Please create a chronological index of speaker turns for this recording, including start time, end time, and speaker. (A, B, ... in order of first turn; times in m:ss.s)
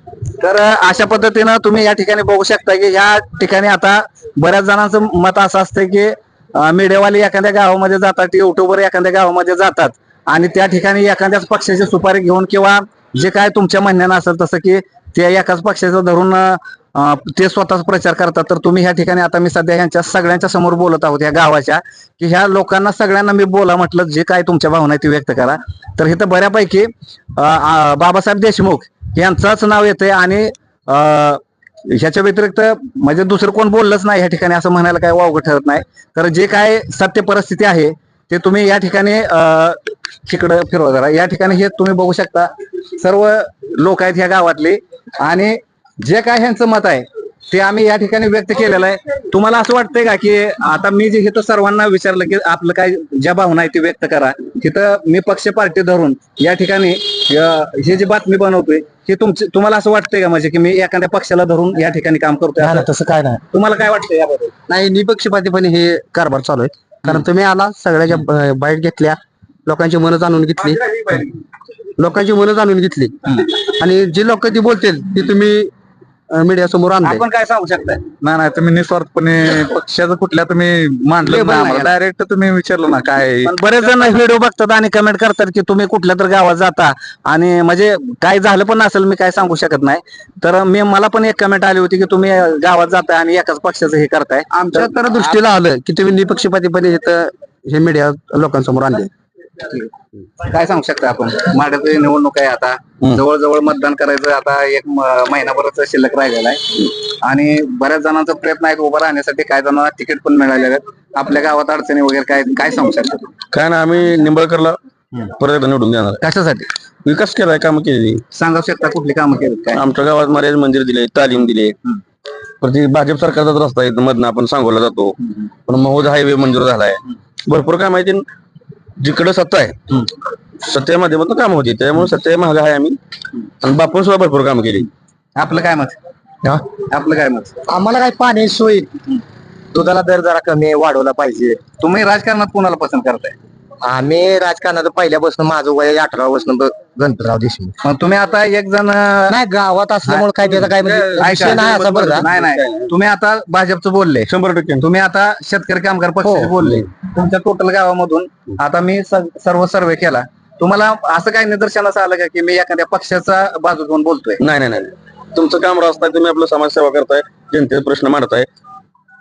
0:00.4-1:02.9 A
1:03.5-1:04.5 A
1:04.7-1:10.8 B
1:10.7-1:11.2 A
1:12.0-1:15.7 B
1:16.3-1:17.2 B
1:17.2-1:23.9 C
1:21.2-1:21.9 A
1:23.4-1:34.9 A
1:34.5-1:39.1 B
1:39.6-1:39.9 A
1:40.4-1:46.6 A
1:47.2-1:53.3 A
1:53.5-1:56.2 D
1:56.2-1:56.6 A
1:57.0-1:58.2 D
1:58.3-1:59.8 A
1:59.7-2:01.8 D
2:02.6-2:08.2 D
2:09.0-2:10.1 D
2:10.6-2:13.0 D
2:13.6-2:14.9 D
2:15.4-2:15.9 A
2:16.8-2:17.5 A
2:17.7-2:18.9 E
2:19.7-2:21.6 E
2:21.8-2:23.3 A
2:23.8-2:27.7 E
2:27.8-2:29.4 A
2:29.3-2:32.3 E
2:30.0-2:34.3 A
2:32.3-2:32.8 D
2:34.3-2:34.9 D
2:34.8-2:44.4 A
2:36.2-2:36.5 E
2:44.4-2:48.5 D